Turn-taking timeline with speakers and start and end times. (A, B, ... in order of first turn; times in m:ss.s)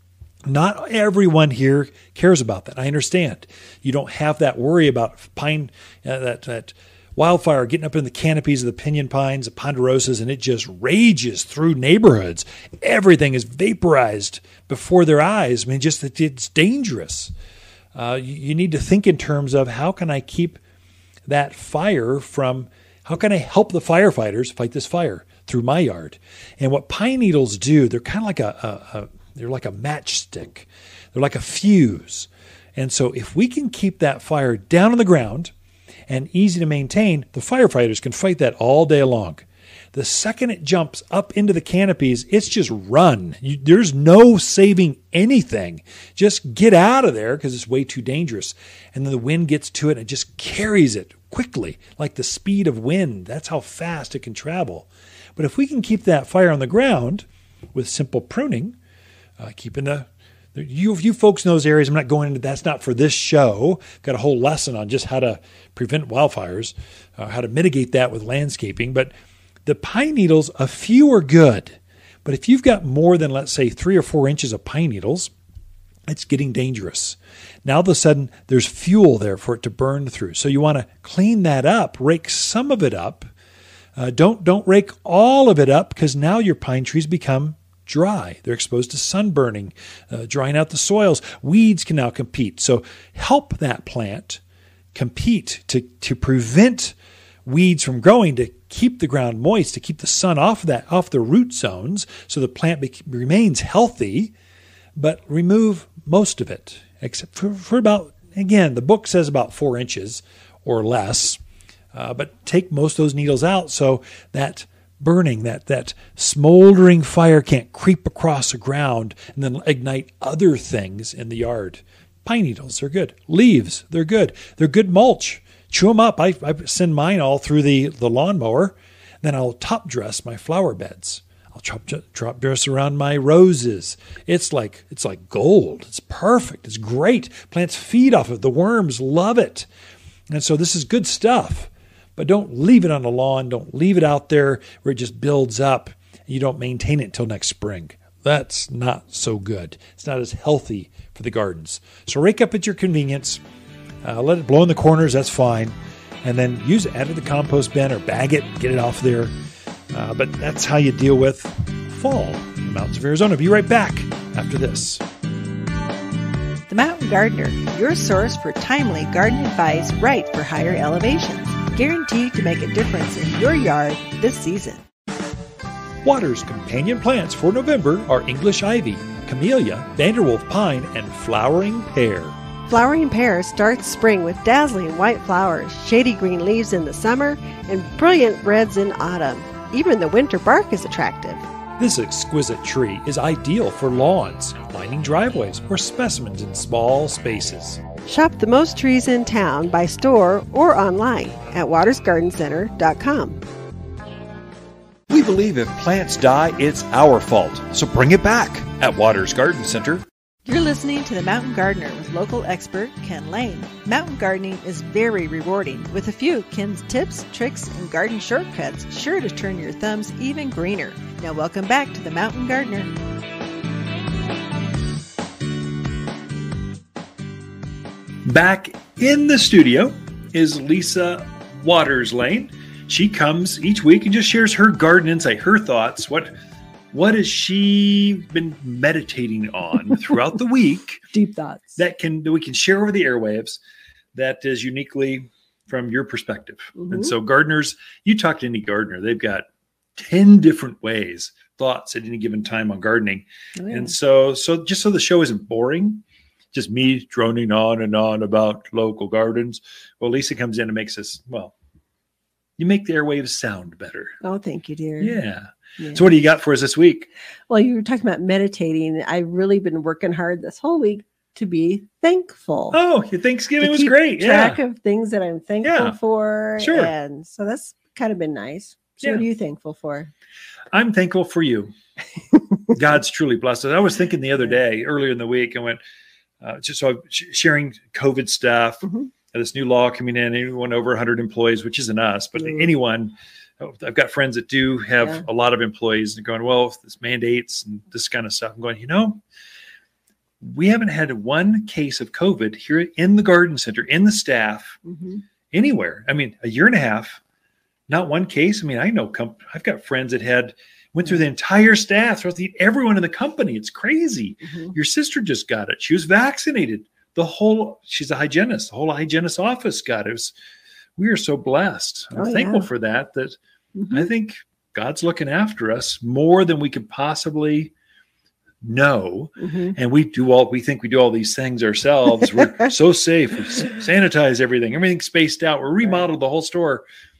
0:00.4-0:17.3 A
0:18.0-0:20.6 A
0:21.3-0:35.5 A
0:36.1-0:58.8 A
0:59.4-1:09.1 A
1:09.6-1:15.3 A
1:16.1-1:23.3 A
1:24.0-1:34.4 A
1:34.9-1:44.3 A
1:45.0-1:51.4 A
1:51.9-2:19.7 A
2:20.3-2:33.4 A
2:34.0-2:39.3 A
2:39.9-2:45.0 A
2:46.7-2:54.8 B
2:56.0-3:02.4 A
3:02.7-3:11.4 C
3:11.8-3:17.8 A
3:18.1-3:23.4 C
3:25.1-3:30.0 A
3:30.5-3:42.9 B
3:48.2-3:56.3 A
3:56.9-4:01.0 A
4:01.1-4:01.8 C
4:01.8-4:03.6 A
4:04.2-4:21.5 A
4:06.8-4:07.1 C
4:13.6-4:13.9 C
4:22.6-4:24.2 A
4:24.2-4:25.2 C
4:25.0-4:27.1 A
4:25.8-4:26.1 C
4:27.5-4:32.8 C
4:32.7-4:34.6 A
4:33.6-4:40.1 C
4:35.6-4:36.0 A
4:36.6-4:36.9 A
4:40.7-4:41.7 A
4:42.7-4:45.8 A
4:46.4-4:59.2 A
4:52.4-4:52.6 C
5:00.4-5:04.8 A
5:04.8-5:05.2 C
5:05.5-5:07.2 A
5:07.9-5:20.3 A
5:14.4-5:14.7 C
5:21.0-5:23.4 A
5:22.2-5:22.7 C
5:23.8-5:24.1 C
5:23.9-5:27.7 A
5:28.6-5:36.8 A
5:29.4-5:29.8 C